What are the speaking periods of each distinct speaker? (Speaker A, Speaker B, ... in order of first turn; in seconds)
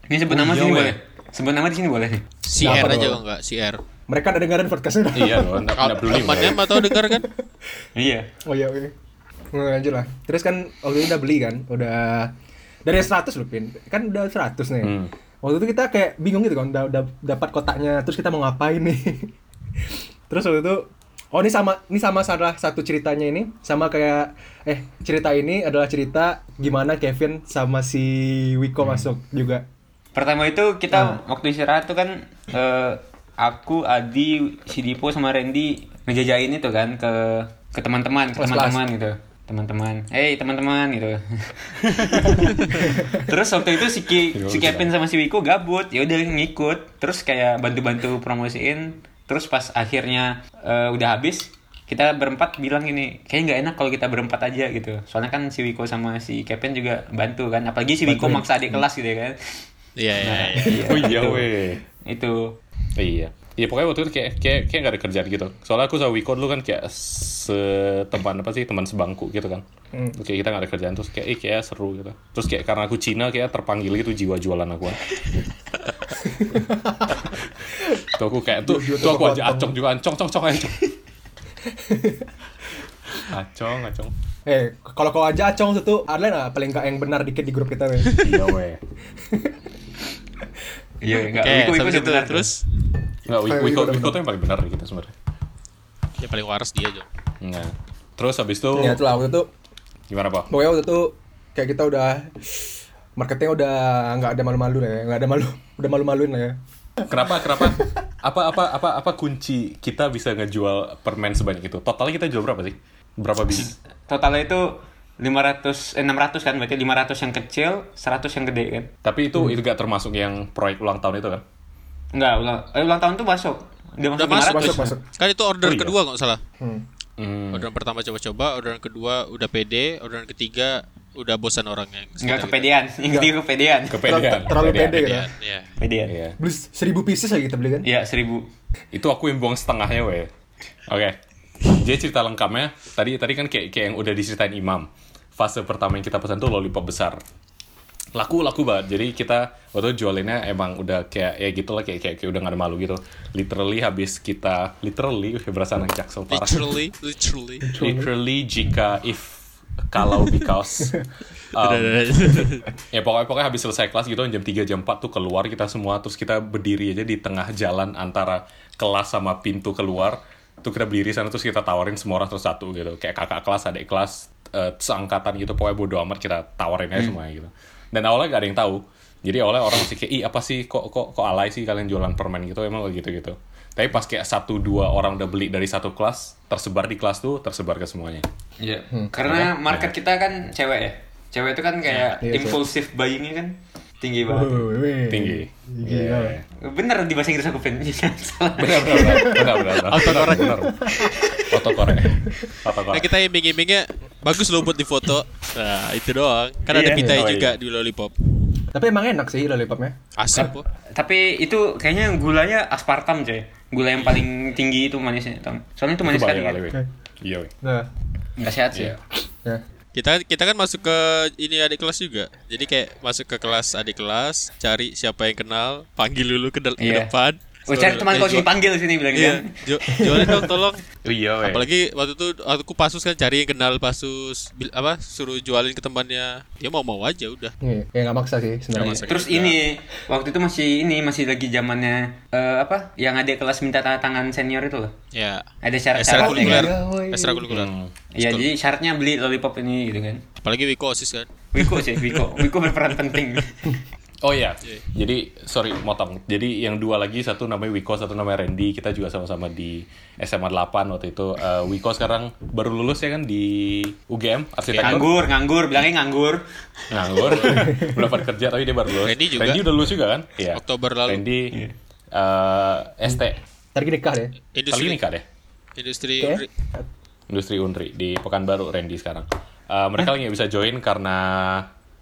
Speaker A: 0.1-2.3, 7.9-8.3, 30.1-59.4, 60.2-61.5, 62.0-62.6, 91.0-92.5, 113.5-118.9, 122.1-124.9, 132.2-134.1, 135.8-136.2, 137.8-138.5, 188.6-194.7, 196.6-199.6, 201.0-201.6, 206.7-207.2, 210.9-216.6, 218.4-219.0, 226.8-227.1, 227.7-229.5, 239.0-244.9, 245.6-246.7, 248.1-250.2, 251.5-253.8, 264.8-267.6
Speaker B: 0.3-1.0, 5.1-6.7, 14.8-15.1, 41.9-42.4, 44.3-44.9, 60.6-61.8, 63.0-69.6, 70.2-75.0, 78.0-80.9, 83.2-84.1, 88.2-88.8, 93.2-95.1, 97.4-99.0, 100.1-100.5, 107.0-113.7, 119.0-121.4, 125.6-126.0, 127.2-127.7, 133.9-135.1, 136.1-136.3, 138.9-140.3, 140.9-147.2, 148.1-156.8, 157.8-161.0, 161.5-162.3, 162.9-188.2, 189.2-189.9, 195.1-196.4, 198.6-200.8, 201.5-203.1, 207.0-207.6, 216.0-217.5, 218.7-219.0, 231.0-231.7, 247.5-247.9, 254.2-265.2, 266.9-271.6, 272.1-273.4, 274.7-275.2, 277.3-281.7
Speaker C: 2.5-3.8, 5.8-7.2, 60.0-61.0, 91.1-92.6, 96.2-97.1, 124.2-126.4, 127.5-132.7, 134.9-135.7, 156.3-157.7, 161.6-162.7, 199.8-200.7, 202.9-208.1, 210.2-210.7, 219.9-228.5, 229.1-230.8, 231.4-237.5, 238.7-239.6, 245.1-248.5, 250.4-252.5, 264.7-265.0, 267.1-267.9, 269.0-269.6, 270.5-271.2, 274.5-275.0, 275.8-276.5
Speaker D: 2.6-3.2, 4.1-5.7, 6.4-7.3, 8.4-8.9, 9.5-12.3, 12.8-19.3, 20.3-29.6, 30.9-31.2, 38.4-38.8, 42.7-43.3, 58.0-58.8, 69.9-70.2, 76.2-77.3, 77.8-78.0, 78.6-79.8, 81.7-82.3, 84.5-88.2, 89.3-89.5, 93.4-94.2, 98.7-99.5, 100.5-102.5, 103.2-106.6, 107.1-107.9, 124.4-125.0, 133.1-133.3, 134.0-135.3, 136.4-137.9, 157.7-158.1, 192.2-192.6, 194.3-196.4, 198.9-199.6, 200.4-201.2, 208.7-210.5, 217.6-217.9, 229.9-230.5, 237.6-239.1, 246.1-247.4, 273.7-274.3, 276.2-276.9